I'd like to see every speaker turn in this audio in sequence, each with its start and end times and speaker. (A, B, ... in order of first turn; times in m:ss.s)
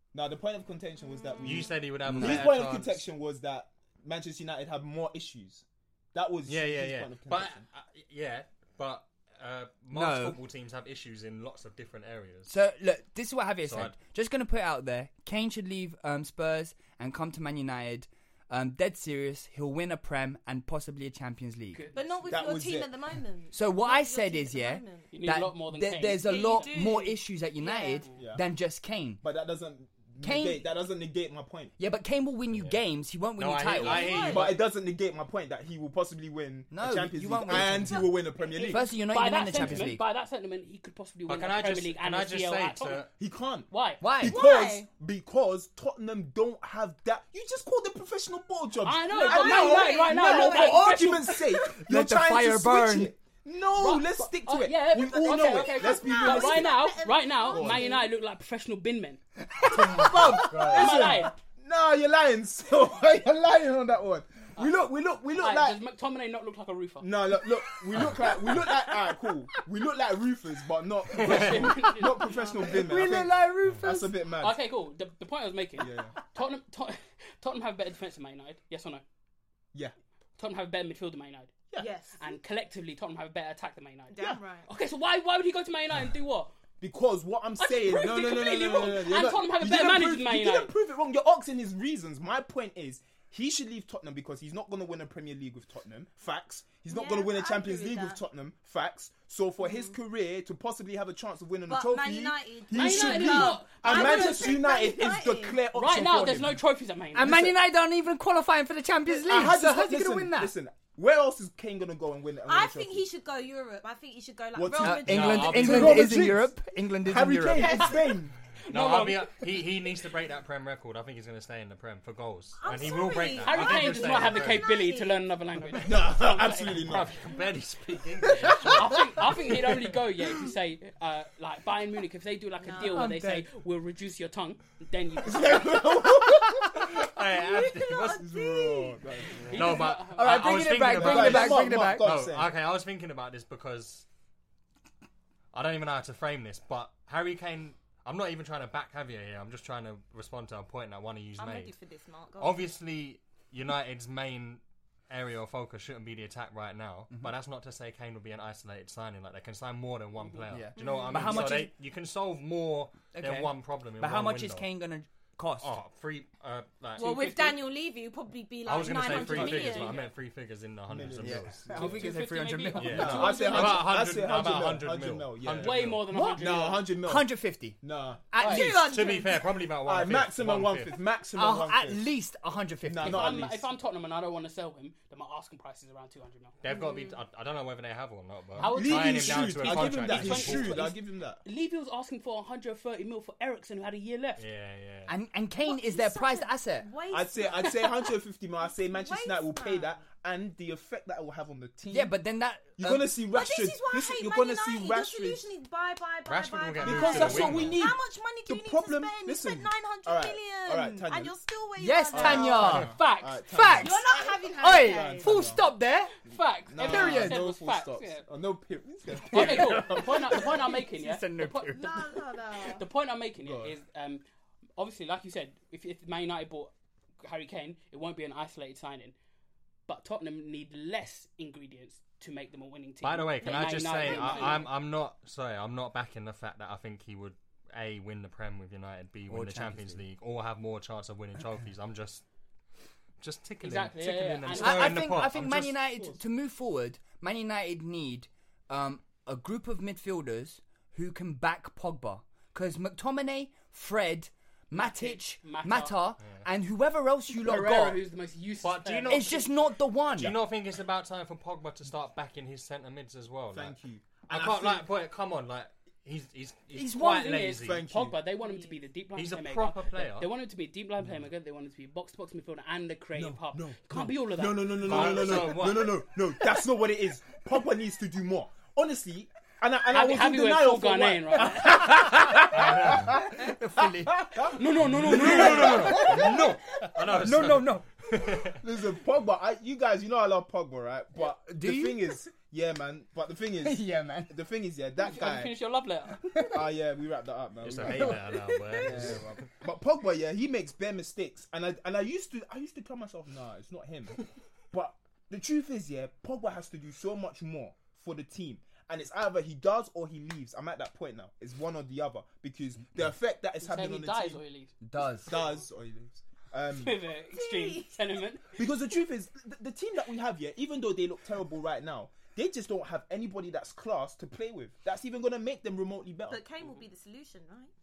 0:00.1-0:07.6 A
0:01.2-0:01.5 B
0:01.4-0:03.0 C
0:02.1-0:02.5 D
0:06.5-0:12.5 C
0:09.9-0:10.4 D
0:12.5-0:21.8 D
0:13.6-0:14.0 C
0:21.7-0:22.4 E
0:21.9-0:25.2 B
0:22.3-0:23.0 A
0:23.5-0:29.2 D
0:25.1-0:27.0 E
0:26.0-0:28.1 B
0:28.2-0:28.5 A
0:29.2-0:31.7 A
0:30.2-0:30.7 D
0:31.8-0:34.3 D
0:32.5-0:32.8 C
0:33.4-0:34.6 C
0:33.7-0:34.6 B
0:34.3-0:38.9 A
0:36.7-0:40.0 D
0:37.5-0:38.8 B
0:39.0-0:43.1 E
0:41.3-0:43.1 C
0:43.2-0:56.7 A
0:43.7-0:44.0 E
0:44.0-0:44.4 D
0:44.2-0:44.9 B
0:48.8-0:51.4 E
0:49.1-0:51.4 B
0:51.6-0:53.1 D
0:53.8-0:59.2 E
0:54.9-0:58.1 B
0:57.5-0:57.9 A
0:59.6-1:00.7 D
0:59.7-1:05.8 A
1:00.3-1:01.1 C
1:00.5-1:01.4 E
1:05.3-1:07.1 E
1:07.0-1:14.6 A
1:08.0-1:08.6 D
1:11.2-1:12.4 E
1:12.6-1:14.2 D
1:14.4-1:19.0 E
1:15.8-1:16.2 A
1:20.4-1:21.5 E
1:21.8-1:22.2 B
1:22.2-1:26.5 E
1:24.1-1:24.7 B
1:26.8-1:46.6 A
1:27.6-1:30.7 E
1:36.9-1:38.2 B
1:39.6-1:40.0 B
1:41.7-1:45.6 B
1:42.7-1:44.6 E
1:45.7-1:47.5 E
1:47.1-1:50.6 D
1:47.2-1:47.5 A
1:49.1-1:53.1 A
1:52.4-1:56.0 B
1:54.5-1:58.4 A
1:54.8-1:57.9 D
1:55.1-1:56.2 C
1:57.6-1:58.0 B
1:58.7-1:59.3 E
1:58.7-2:04.7 C
2:02.6-2:05.2 B
2:03.4-2:06.9 E
2:05.8-2:07.1 A
2:06.8-2:09.2 C
2:08.6-2:15.8 E
2:12.6-2:13.2 B
2:12.8-2:13.5 D
2:15.2-2:16.9 A
2:16.8-2:18.2 C
2:17.4-2:19.0 B
2:18.2-2:19.8 A
2:19.5-2:24.1 C
2:19.5-2:20.5 E
2:20.2-2:22.1 D
2:20.9-2:22.5 A
2:25.5-2:31.8 C
2:31.4-2:32.7 B
2:32.4-2:44.7 C
2:40.5-2:41.7 D
2:40.8-2:41.5 B
2:43.1-2:45.8 D
2:45.6-2:47.5 C
2:47.0-2:50.1 B
2:47.0-2:47.5 E
2:48.6-2:51.7 C
2:49.1-2:50.1 E
2:50.9-2:52.1 A
2:51.2-2:53.4 D
2:51.7-2:53.8 E
2:52.8-2:56.0 C
2:52.8-2:58.3 A
2:53.4-2:53.8 B
2:55.6-2:56.9 E
2:56.1-2:56.4 D
2:57.0-2:57.8 D
2:58.3-2:59.1 D
2:58.4-2:59.5 B
2:58.7-3:01.0 C
2:59.8-3:02.1 A
3:01.3-3:03.5 D
3:02.8-3:03.7 A
3:03.0-3:06.6 E
3:06.6-3:10.8 C
3:06.7-3:07.2 B
3:08.6-3:14.4 E
3:08.6-3:11.4 A
3:14.4-3:15.1 C
3:15.1-3:16.9 D
3:15.6-3:20.1 B
3:17.1-3:22.2 A
3:21.9-3:23.2 D
3:22.8-3:25.5 A
3:23.3-3:32.8 B
3:26.3-3:27.8 C
3:26.8-3:31.4 A
3:31.8-3:33.0 D
3:32.1-3:35.6 A
3:32.8-3:33.4 E
3:33.5-3:36.1 D
3:33.8-3:35.6 B
3:36.2-3:38.2 E
3:36.4-3:40.6 A
3:36.8-3:37.4 D
3:39.2-3:42.0 E
3:39.3-3:42.1 D
3:41.7-3:42.8 B
3:42.6-3:44.2 E
3:43.4-3:43.8 A
3:44.8-3:46.7 E
3:47.2-3:49.2 E
3:49.9-3:54.7 E
3:53.0-4:02.2 C
3:53.8-3:54.5 B
3:59.3-4:00.0 D
4:03.2-4:05.8 C
4:03.6-4:05.0 E
4:04.5-4:18.0 D
4:05.9-4:06.2 A
4:14.7-4:16.0 E
4:17.4-4:19.5 E
4:18.6-4:19.4 C
4:19.1-4:20.4 D
4:20.1-4:23.8 C
4:23.5-4:24.9 A
4:24.3-4:27.8 C
4:26.7-4:27.3 D
4:26.9-4:35.5 E
4:27.6-4:28.2 A
4:28.4-4:28.8 B
4:29.1-4:30.3 C
4:33.2-4:46.8 A
4:34.8-4:36.1 C
4:39.9-4:41.9 E
4:41.7-4:46.4 D
4:42.5-4:43.2 C
4:44.6-4:45.9 E
4:44.9-4:48.6 C
4:47.2-4:47.9 D
4:48.5-4:55.6 A
4:51.2-4:52.2 D
4:53.6-4:54.3 D
4:55.0-4:56.3 E
4:56.2-4:56.7 D
4:56.4-5:14.4 A
4:57.6-4:59.5 C
4:57.8-4:59.4 D
5:13.6-5:14.7 E
5:14.8-5:15.3 D
5:15.2-5:17.0 A
5:16.7-5:18.6 E
5:17.3-5:18.0 B
5:18.6-5:26.4 A
5:26.3-5:27.7 B